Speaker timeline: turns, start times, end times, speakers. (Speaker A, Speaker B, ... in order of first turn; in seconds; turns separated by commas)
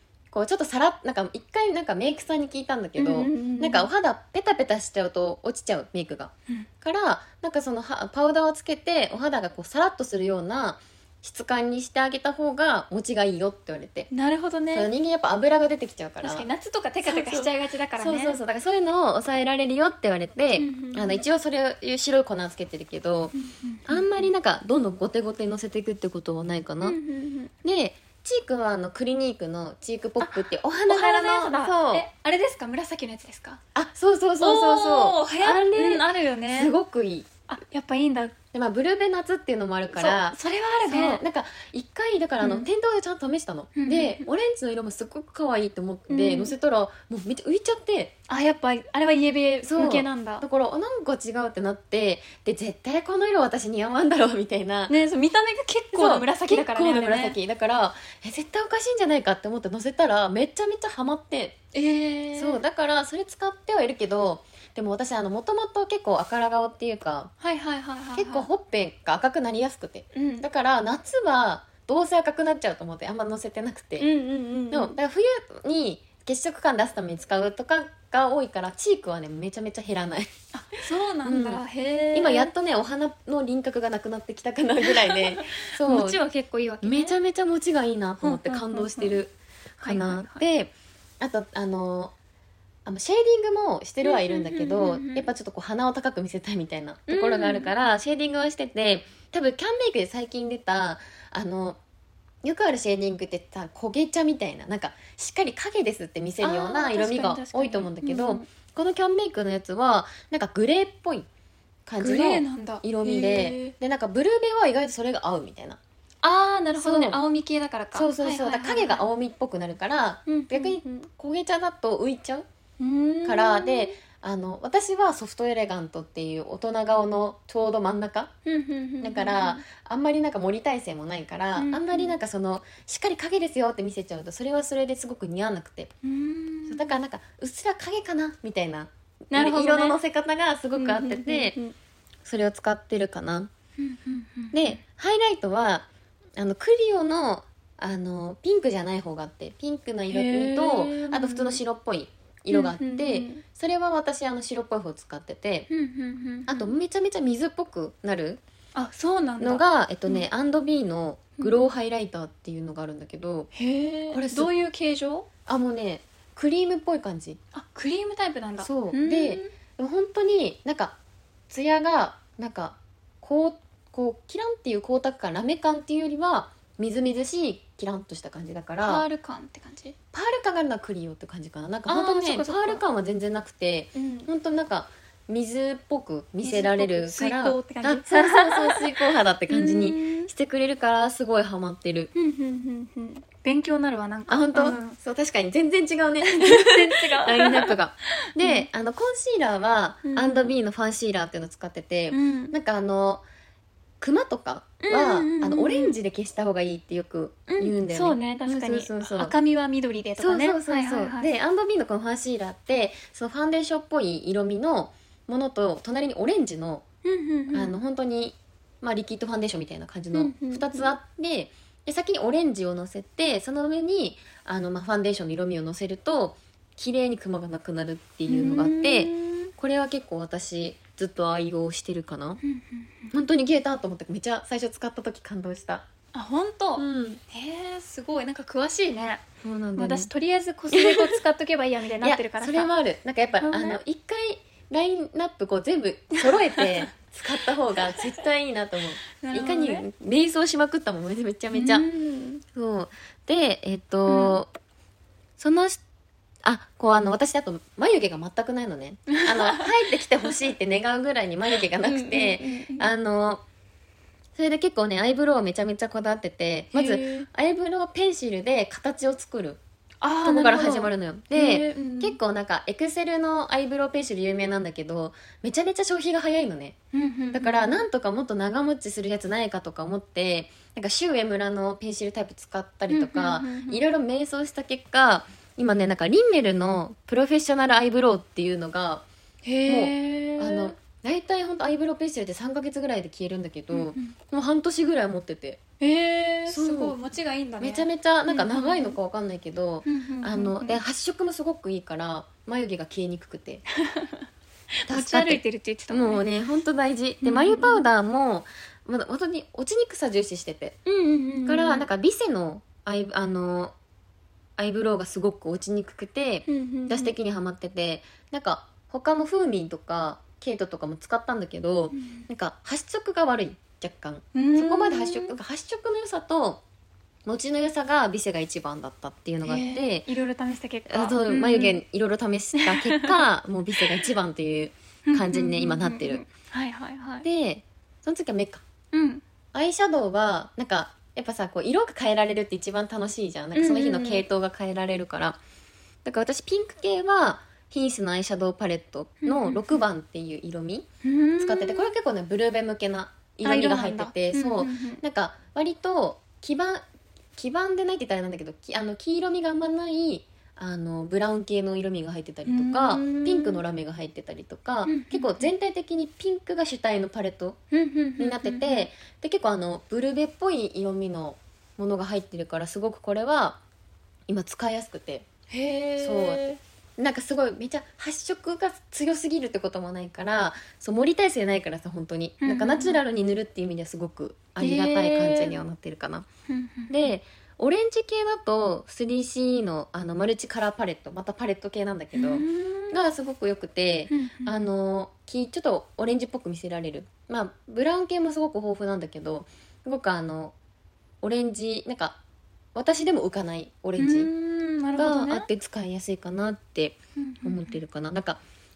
Speaker A: 0.3-14.1, Speaker B: 3.0-3.9, Speaker B: 14.1-14.9, Speaker A: 14.7-16.5, Speaker B: 16.2-18.4, Speaker A: 17.0-23.3, Speaker B: 20.5-21.2, Speaker B: 23.3-24.2, Speaker A: 23.9-27.0, Speaker B: 26.8-27.5, Speaker A: 27.6-32.1, Speaker B: 30.2-33.6, Speaker A: 33.7-37.3, Speaker B: 34.4-36.7, Speaker B: 37.5-38.3, Speaker A: 38.5-48.1, Speaker B: 39.9-41.2, Speaker B: 42.4-42.7, Speaker B: 43.7-44.3, Speaker B: 46.1-46.5, Speaker B: 48.3-50.5, Speaker A: 49.6-54.9, Speaker B: 54.9-57.4, Speaker A: 55.9-61.6, Speaker B: 61.7-62.6, Speaker A: 62.3-67.3, Speaker B: 67.4-68.5, Speaker A: 68.1-74.1, Speaker B: 70.1-70.5, Speaker B: 74.0-74.9, Speaker A: 74.7-80.3, Speaker B: 80.5-82.5, Speaker A: 81.2-81.6, Speaker A: 82.1-86.2, Speaker B: 84.8-87.2, Speaker A: 86.8-92.1, Speaker B: 88.2-89.2, Speaker B: 89.8-90.4, Speaker A: 92.8-101.8, Speaker B: 94.0-95.3, Speaker B: 97.1-97.7, Speaker A: 102.4-111.3, Speaker B: 106.4-108.5, Speaker A: 111.9-115.8, Speaker B: 112.0-113.7, Speaker B: 116.2-119.0, Speaker A: 116.8-117.2, Speaker A: 117.9-122.4, Speaker B: 120.2-121.1, Speaker B: 122.8-124.0, Speaker A: 123.2-128.3, Speaker B: 128.4-129.6, Speaker A: 129.0-135.9, Speaker B: 131.6-132.1, Speaker B: 136.0-136.9, Speaker A: 136.7-141.6, Speaker B: 139.3-140.0, Speaker B: 140.8-141.7, Speaker A: 142.2-143.5, Speaker B: 143.8-144.8, Speaker A: 144.5-155.7, Speaker B: 150.1-151.6, Speaker B: 152.5-153.4, Speaker B: 155.7-156.7, Speaker A: 156.5-158.4, Speaker B: 158.7-160.3, Speaker A: 159.4-163.5, Speaker B: 161.4-161.7, Speaker B: 163.5-165.3, Speaker A: 164.1-164.5, Speaker A: 165.5-167.4, Speaker B: 167.5-169.5, Speaker A: 168.6-171.0, Speaker A: 171.5-179.0, Speaker B: 178.8-179.9, Speaker A: 180.1-192.1, Speaker B: 181.9-182.8, Speaker B: 183.9-184.3, Speaker B: 186.4-190.3, Speaker B: 192.1-195.0, Speaker A: 194.3-203.2, Speaker B: 196.2-198.7, Speaker B: 200.0-200.5, Speaker B: 202.1-202.6, Speaker A: 204.0-209.3, Speaker B: 204.8-205.9, Speaker B: 207.5-211.3, Speaker A: 210.2-216.8, Speaker B: 217.0-217.8, Speaker A: 217.5-232.4, Speaker B: 220.1-221.0, Speaker B: 228.3-229.5, Speaker B: 232.4-233.1, Speaker A: 233.1-235.9, Speaker B: 236.1-239.2, Speaker A: 236.8-237.2, Speaker A: 239.4-240.1, Speaker B: 239.8-242.7, Speaker A: 240.7-241.2, Speaker A: 242.0-251.9, Speaker B: 243.4-243.8, Speaker B: 246.3-246.9, Speaker B: 249.2-249.9, Speaker B: 251.5-252.4, Speaker A: 252.5-254.5, Speaker B: 254.1-254.4, Speaker A: 255.4-255.8, Speaker A: 256.4-263.4, Speaker B: 259.1-259.8, Speaker B: 261.5-262.9, Speaker A: 264.3-269.6, Speaker B: 266.7-267.3, Speaker B: 270.0-272.2, Speaker A: 270.2-276.8, Speaker B: 276.9-277.8, Speaker A: 277.3-289.1, Speaker B: 282.9-283.8, Speaker B: 289.4-290.8, Speaker A: 289.6-295.6, Speaker B: 293.7-294.1, Speaker B: 295.8-299.0, Speaker A: 296.5-296.9, Speaker A: 297.6-303.6, Speaker B: 299.8-300.8, Speaker B: 303.8-304.2, Speaker B: 304.8-306.2, Speaker A: 304.9-310.8, Speaker B: 307.2-307.8, Speaker B: 310.8-311.9, Speaker A: 311.4-313.7, Speaker A: 314.6-326.6, Speaker B: 316.5-317.1, Speaker B: 321.9-322.3, Speaker B: 324.3-325.3, Speaker A: 327.2-330.1, Speaker B: 329.4-331.8, Speaker A: 330.9-336.2, Speaker B: 332.5-333.2, Speaker B: 333.8-334.0, Speaker B: 335.1-337.2, Speaker A: 337.2-338.6, Speaker B: 338.9-339.2, Speaker A: 339.5-345.4, Speaker B: 343.5-344.2, Speaker A: 346.0-350.9, Speaker B: 349.2-349.8, Speaker B: 351.0-351.9, Speaker A: 351.4-356.8, Speaker B: 353.4-355.0, Speaker A: 357.4-367.6, Speaker B: 362.4-363.6, Speaker B: 364.9-365.5, Speaker B: 367.7-368.9, Speaker A: 368.2-373.6, Speaker A: 374.3-375.2, Speaker B: 375.5-376.6, Speaker A: 376.0-386.3, Speaker B: 382.4-383.0, Speaker B: 384.6-385.6, Speaker B: 386.5-387.1, Speaker A: 386.9-400.5, Speaker B: 392.1-392.9, Speaker B: 394.1-394.6, Speaker A: 401.2-402.2, Speaker A: 402.7-404.3, Speaker B: 404.0-405.5, Speaker A: 404.9-408.4, Speaker B: 407.2-407.8